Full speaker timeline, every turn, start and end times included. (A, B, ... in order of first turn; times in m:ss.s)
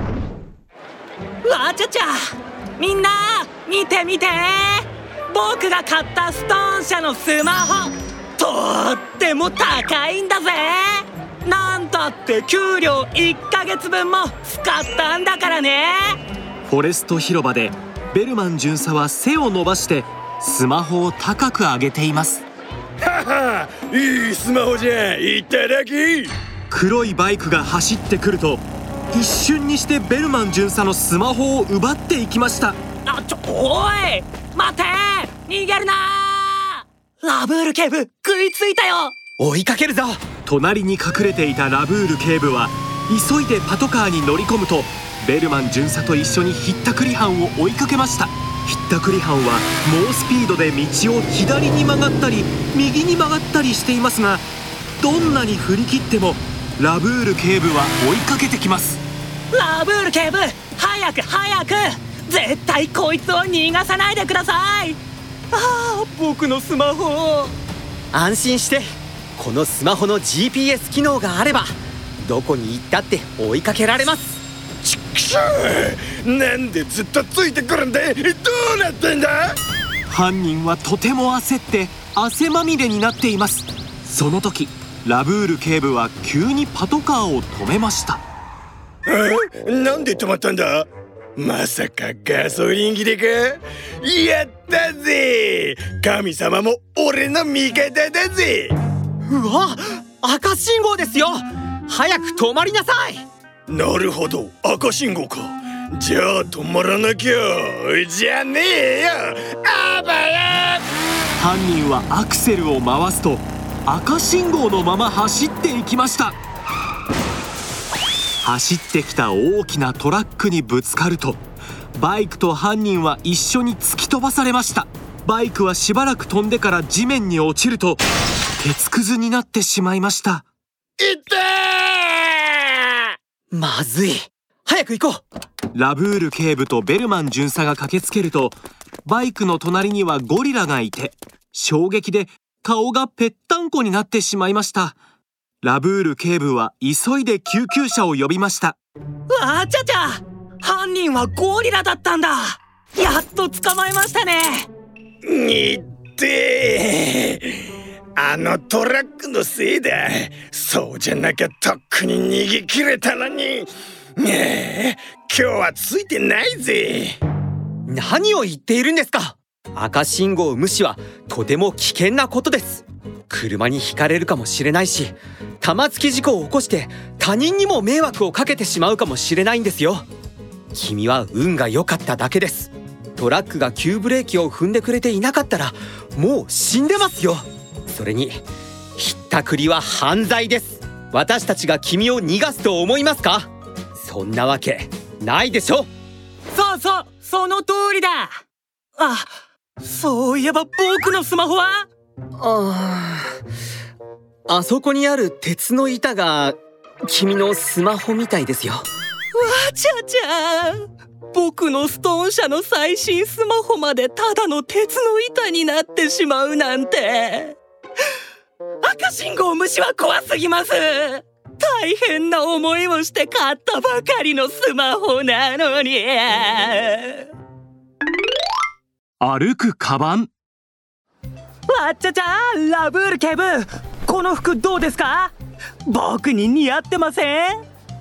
0:01.4-0:16.0 A
0:16.7-0:22.4 B
0:23.0-0:26.3 C
0:26.7-0:32.8 B
0:33.1-0:39.1 A
0:39.4-0:40.2 D
0:40.5-0:54.4 B
0:55.0-0:59.0 B
0:59.6-1:05.0 A
1:05.8-1:06.6 A
1:08.1-1:14.4 D
1:14.9-1:19.5 C
1:20.1-1:28.2 B
1:29.1-1:38.7 C
1:39.3-1:43.3 D
1:43.7-1:50.8 C
1:51.4-1:56.4 B
1:58.4-2:01.4 B
2:02.0-2:08.0 B
2:08.6-2:10.4 B
2:11.0-2:12.2 C
2:13.5-2:15.2 D
2:15.7-2:25.0 B
2:25.6-2:28.8 B
2:29.3-2:34.7 A
2:35.3-2:37.6 C
2:38.2-2:43.7 C
2:44.2-2:47.2 C
2:47.9-3:00.1 D
3:00.7-3:08.4 D
3:09.0-3:15.9 D
3:16.5-3:18.4 A
3:19.0-3:19.3 A
3:19.8-3:21.9 A
3:22.4-3:23.4 D
3:24.5-3:28.9 D
3:29.4-3:37.6 A
3:38.8-3:47.3 A
3:49.2-3:50.3 B
3:51.7-3:55.3 A
3:55.8-3:57.6 A